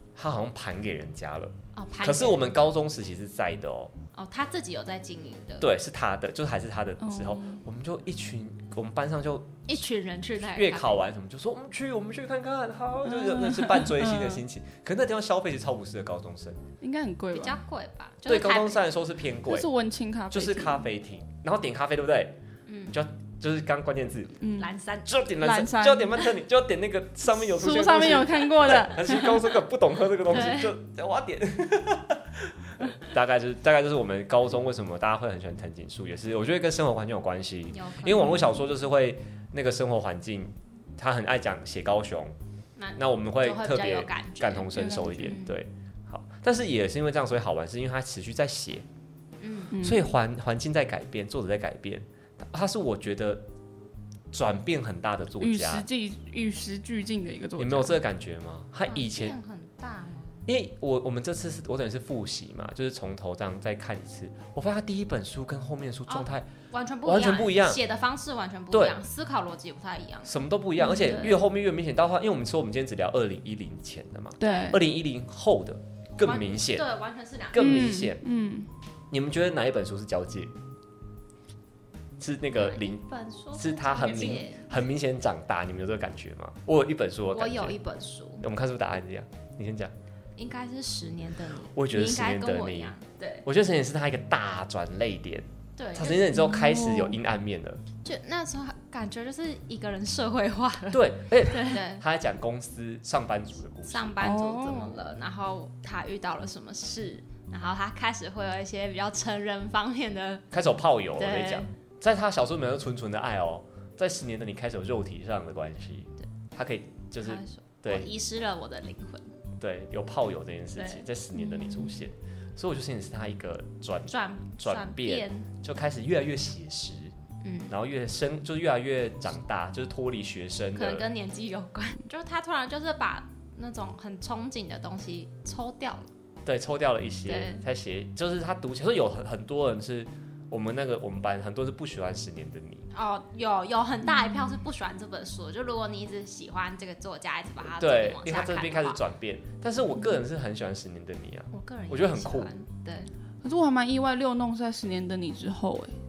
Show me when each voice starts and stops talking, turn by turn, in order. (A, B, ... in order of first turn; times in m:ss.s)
0:00.2-0:03.9 A
0:01.7-0:02.6 B
0:04.1-0:05.7 B
0:05.6-0:09.6 A
0:07.0-0:07.6 C
0:09.7-0:11.0 B
0:10.4-0:16.6 A
0:13.1-0:14.4 C
0:16.8-0:17.6 C
0:17.3-0:18.8 B
0:18.3-0:19.7 A
0:19.5-0:20.9 C
0:20.3-0:22.4 A
0:22.7-0:23.0 B
0:22.9-0:24.4 A
0:24.4-0:24.7 C
0:24.6-0:25.1 B
0:25.1-0:42.4 A
0:25.4-0:26.3 C
0:27.4-0:29.5 C
0:30.3-0:30.8 B
0:37.7-0:38.5 B
0:42.8-0:45.6 B
0:43.0-0:48.9 A
0:44.8-0:45.4 C
0:49.4-0:49.7 B
0:49.7-0:50.1 C
0:49.8-0:53.4 A
0:54.3-0:55.9 A
0:55.4-0:58.0 C
0:57.6-0:59.4 A
0:58.9-1:00.5 B
1:00.5-1:06.5 A
1:06.1-1:11.4 B
1:07.0-1:07.8 A
1:08.7-1:09.0 A
1:10.2-1:16.9 A
1:14.4-1:14.8 C
1:14.4-1:14.8 B
1:16.2-1:17.7 B
1:17.5-1:18.2 A
1:17.6-1:18.7 C
1:19.1-1:20.5 A
1:22.2-1:27.8 A
1:22.6-1:24.8 B
1:27.3-1:28.4 B
1:28.4-1:29.9 A
1:30.4-1:33.4 B
1:31.7-1:37.8 A
1:35.8-1:36.3 B
1:36.3-1:37.2 C
1:38.0-1:42.0 B
1:40.9-1:44.3 A
1:43.9-1:50.4 B
1:44.2-1:45.0 C
1:50.5-1:58.1 A
1:51.2-1:51.7 B
1:57.2-1:59.3 B
1:59.6-2:07.1 A
2:00.8-2:02.0 B
2:04.1-2:05.5 B
2:07.4-2:07.7 B
2:07.7-2:11.1 A
2:10.8-2:16.1 B
2:16.5-2:22.9 A
2:17.3-2:17.6 B
2:22.9-2:29.0 B
2:27.8-2:32.5 A
2:31.5-2:33.1 B
2:33.4-2:36.0 C